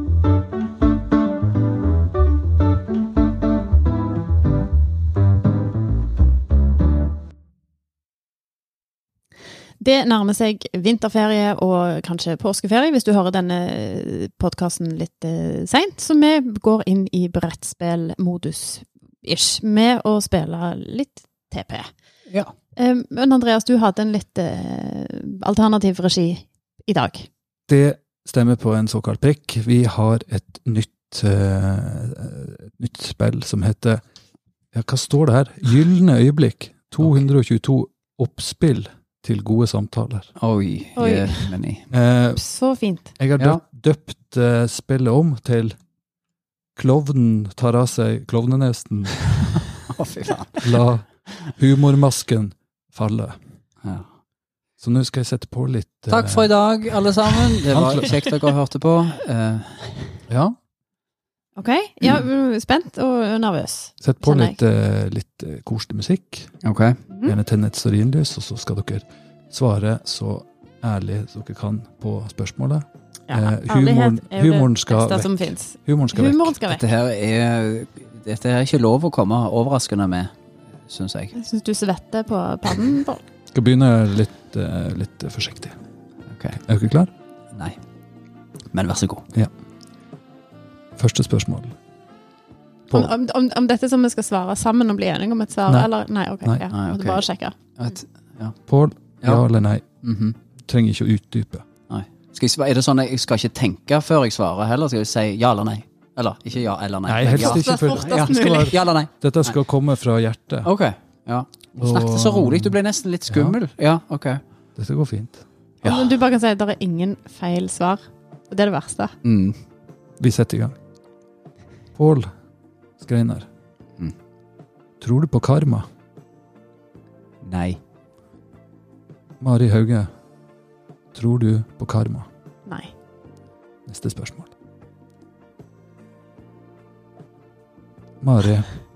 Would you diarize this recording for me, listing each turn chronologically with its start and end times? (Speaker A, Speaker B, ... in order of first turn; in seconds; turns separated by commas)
Speaker A: 9.8-21.9, Speaker A: 22.8-27.3, Speaker B: 27.7-34.0, Speaker B: 34.7-40.3, Speaker C: 40.4-41.9, Speaker A: 41.0-41.5, Speaker B: 41.9-42.4, Speaker A: 42.4-43.1, Speaker B: 43.2-45.7, Speaker B: 46.8-49.7, Speaker C: 49.9-50.6, Speaker B: 50.6-53.4, Speaker B: 54.8-56.5, Speaker C: 56.1-60.1, Speaker B: 57.7-58.1, Speaker B: 60.3-60.5, Speaker A: 61.5-64.6, Speaker B: 64.0-66.5, Speaker C: 66.6-67.0, Speaker A: 67.1-67.3, Speaker B: 67.2-76.5, Speaker A: 73.3-76.8, Speaker C: 76.7-80.3, Speaker C: 80.8-81.3, Speaker A: 81.3-83.2, Speaker B: 83.5-85.7, Speaker C: 86.3-86.6, Speaker B: 86.6-87.1, Speaker C: 87.5-87.8, Speaker C: 88.7-89.2, Speaker B: 91.0-91.7, Speaker A: 92.9-97.5, Speaker C: 96.7-97.2, Speaker C: 97.8-98.5, Speaker B: 98.7-99.8, Speaker C: 100.0-100.3, Speaker B: 100.7-101.6, Speaker C: 101.9-109.5, Speaker B: 107.0-110.7, Speaker A: 107.3-108.8, Speaker C: 110.6-114.4, Speaker B: 111.8-113.6, Speaker B: 114.8-115.4, Speaker C: 115.8-116.1, Speaker A: 115.8-119.1, Speaker C: 119.2-119.6, Speaker B: 120.2-120.8, Speaker B: 122.0-122.3, Speaker B: 123.0-123.5, Speaker B: 125.0-125.8, Speaker C: 127.4-127.8, Speaker B: 129.4-130.1, Speaker B: 131.1-132.3, Speaker B: 133.9-134.5, Speaker B: 138.2-138.7